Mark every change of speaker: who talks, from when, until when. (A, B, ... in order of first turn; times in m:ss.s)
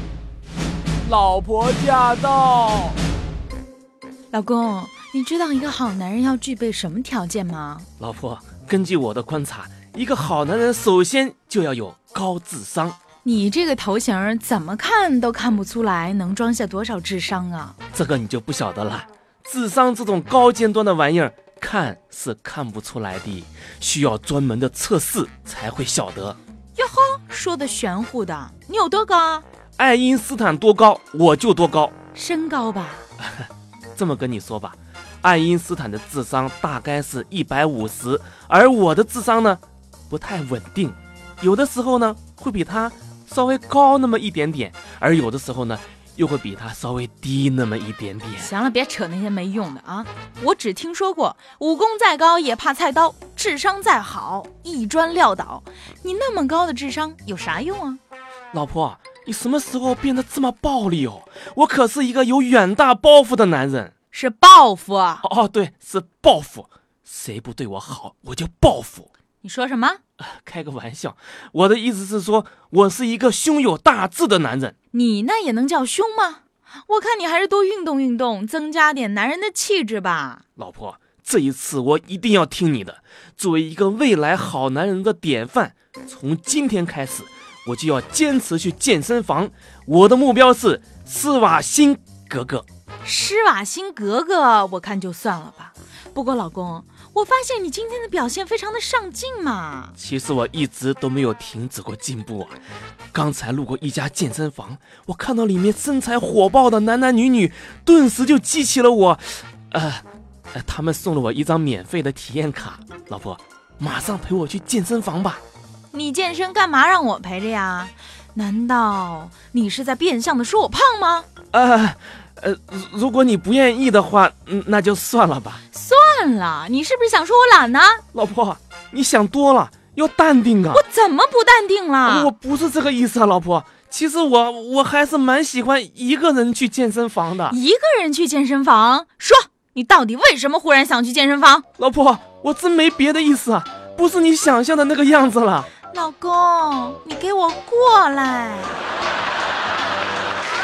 0:01.7-0:02.8 A
0:04.3-0:07.9 B
0:08.0-0:13.0 A
0:13.2-0:17.8 B
0:17.9-0:26.4 A
0:26.8-0:29.4 B
0:29.8-0:31.9 A
0:32.1-0:33.0 B
0:33.2-0:48.5 A
0:48.4-0:58.0 B
0:58.5-1:03.9 A
1:04.1-1:05.2 B
1:05.2-1:09.1 A
1:09.4-1:10.0 B
1:10.2-1:14.7 A
1:14.9-1:20.4 B
1:20.6-1:32.6 A
1:33.0-1:39.9 B
1:40.0-1:42.6 A
1:43.1-1:55.4 A
1:55.9-2:01.3 B
2:01.5-2:05.6 A
2:05.7-2:08.0 B
2:08.1-2:10.8 A
2:10.7-2:12.3 B
2:12.0-2:17.6 A
2:17.5-2:21.6 B
2:21.8-2:25.7 A
2:25.9-2:28.8 B